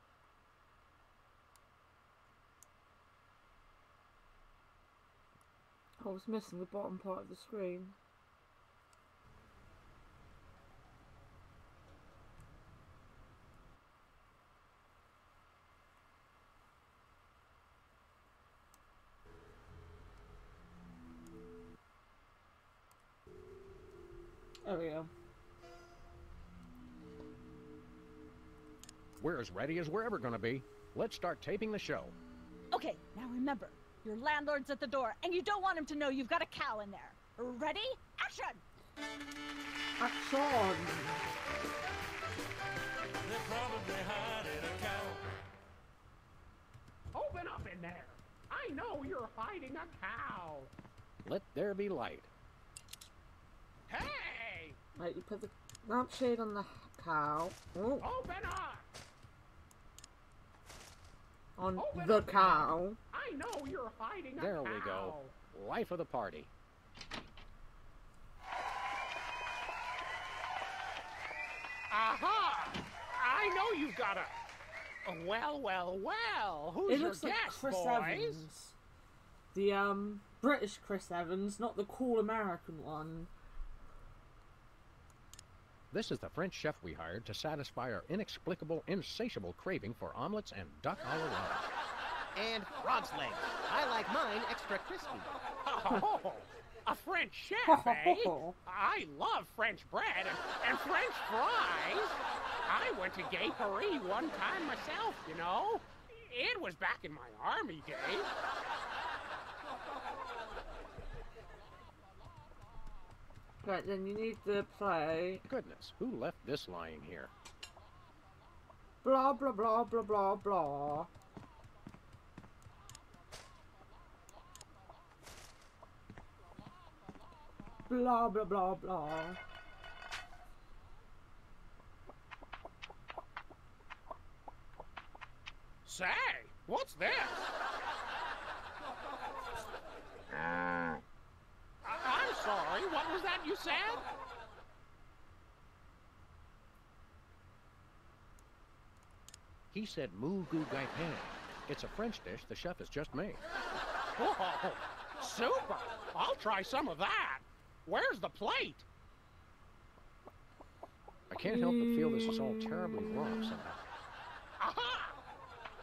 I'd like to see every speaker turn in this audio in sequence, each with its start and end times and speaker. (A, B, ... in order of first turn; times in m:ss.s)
0:06.0-0:08.0 A
0:24.6-0:25.1 A
0:29.2-0:32.2 B
0:32.7-0:38.6 C
0:40.0-0:41.2 A
0:43.3-0:45.2 D
0:47.1-0:50.7 D
0:51.2-0:52.3 B
0:53.9-0:54.8 D
0:55.0-0:58.1 A
0:58.0-0:58.9 D
1:01.6-1:03.0 A
1:01.8-1:05.4 D
1:04.4-1:06.5 B
1:11.9-1:14.4 D
1:15.0-1:18.5 D
1:16.9-1:18.8 A
1:19.5-1:23.3 A
1:25.9-1:31.7 B
1:32.4-1:35.3 E
1:35.7-1:48.3 D
1:37.7-1:38.6 A
1:53.6-1:55.4 A
1:55.5-1:57.3 B
1:59.0-2:01.1 A
2:07.9-2:09.4 A
2:15.8-2:17.5 D
2:21.8-2:24.1 D
2:29.7-2:33.4 B
2:34.2-2:38.8 D
2:41.3-2:43.8 B
2:41.4-2:43.6 A
2:44.6-2:45.2 D